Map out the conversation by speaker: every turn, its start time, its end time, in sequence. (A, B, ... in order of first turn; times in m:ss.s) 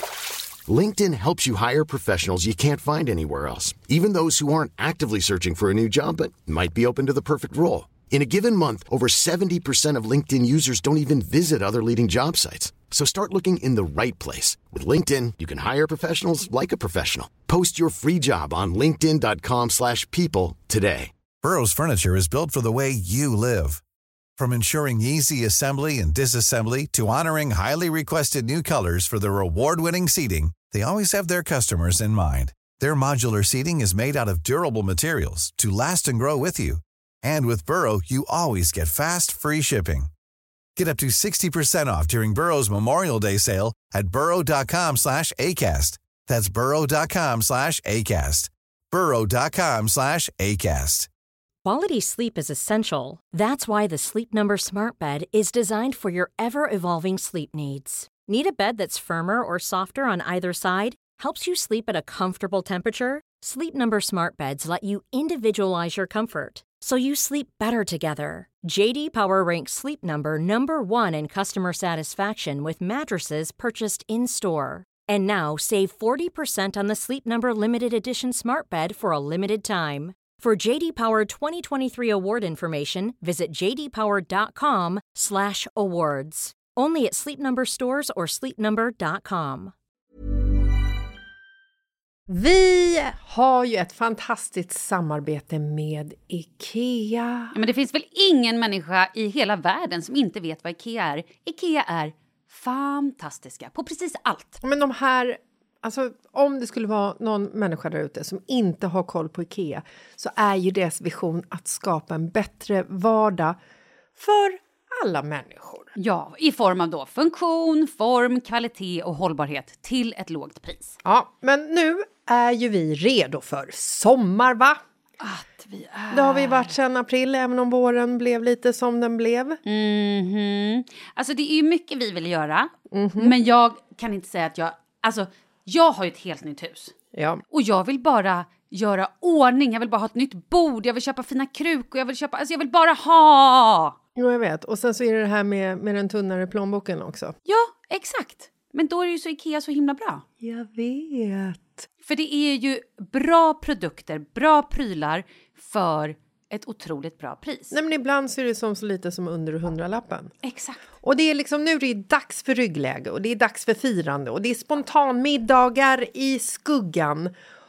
0:00.7-0:21.1 A
0:21.4-0:23.8 B
0:24.4-0:40.1 B
0:40.8-0:51.1 B
0:51.6-1:29.7 C
1:32.3-1:37.6 D
1:37.5-1:44.6 E
1:44.6-1:53.6 D
1:54.2-1:55.9 D
1:56.0-2:01.0 E
2:01.0-2:04.8 D
2:05.2-2:06.7 E
2:06.1-2:09.6 D
2:09.7-2:17.0 E
2:12.9-2:13.4 D
2:17.1-2:17.4 D
2:17.5-2:24.0 E
2:24.2-2:27.3 D
2:27.4-2:30.2 E
2:30.4-2:31.9 D
2:32.0-2:37.7 E
2:37.7-2:40.3 D
2:40.4-2:40.8 E
2:41.0-2:47.3 D